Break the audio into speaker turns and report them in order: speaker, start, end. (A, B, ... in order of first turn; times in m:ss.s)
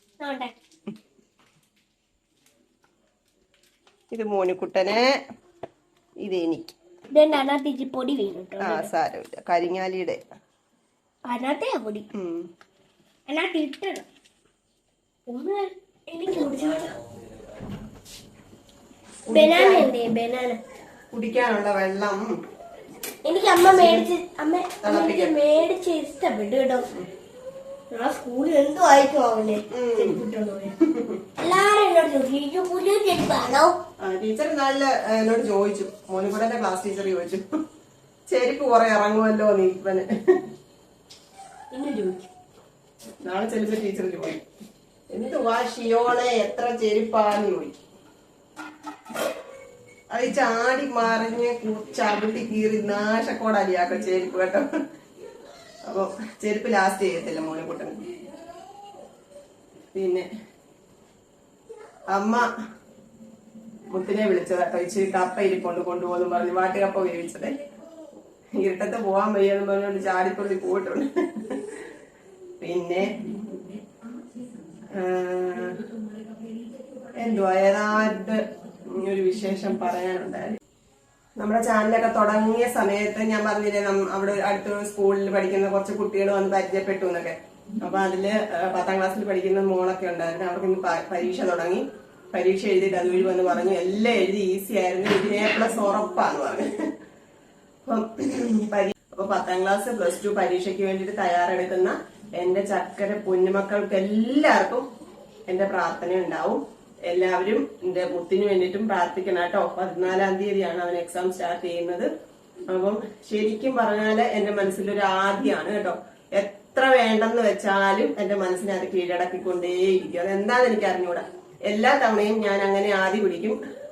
0:00.2-0:00.5 A
0:04.1-0:05.1 B
0:06.2-0:06.8 B
0:07.1-0:08.9 A
0:08.6-0:10.2 B
0:11.3-0:12.1 A
0:12.1-0:12.5 B
0:13.3-0:14.0 A
0:15.3-0:17.0 A
0:19.3-0:19.9 B
0:19.3-0:20.6 A
0:21.1-0:22.4 B
0:23.2-0:26.9 A
0:23.7-0:24.1 B
0:24.8-0:25.4 B
0:27.9-0:30.8 A
0:29.7-0:30.2 B
0:30.8-0:31.2 B
0:31.4-0:33.8 A
0:34.0-0:37.4 B
0:38.3-0:40.4 B
0:41.7-0:42.3 A
0:43.2-0:44.4 B
0:45.1-0:47.8 B
0:50.1-0:54.7 B
0:55.9-0:58.0 B
0:59.9-1:00.3 B
1:02.1-1:02.5 B
1:03.9-1:07.6 B
1:08.6-1:11.8 B
1:12.6-1:13.4 B
1:14.9-1:15.8 B
1:17.2-1:20.6 B
1:21.4-1:36.7 B
1:37.9-1:44.9 B
1:45.5-1:52.1 B
1:52.7-2:03.6 B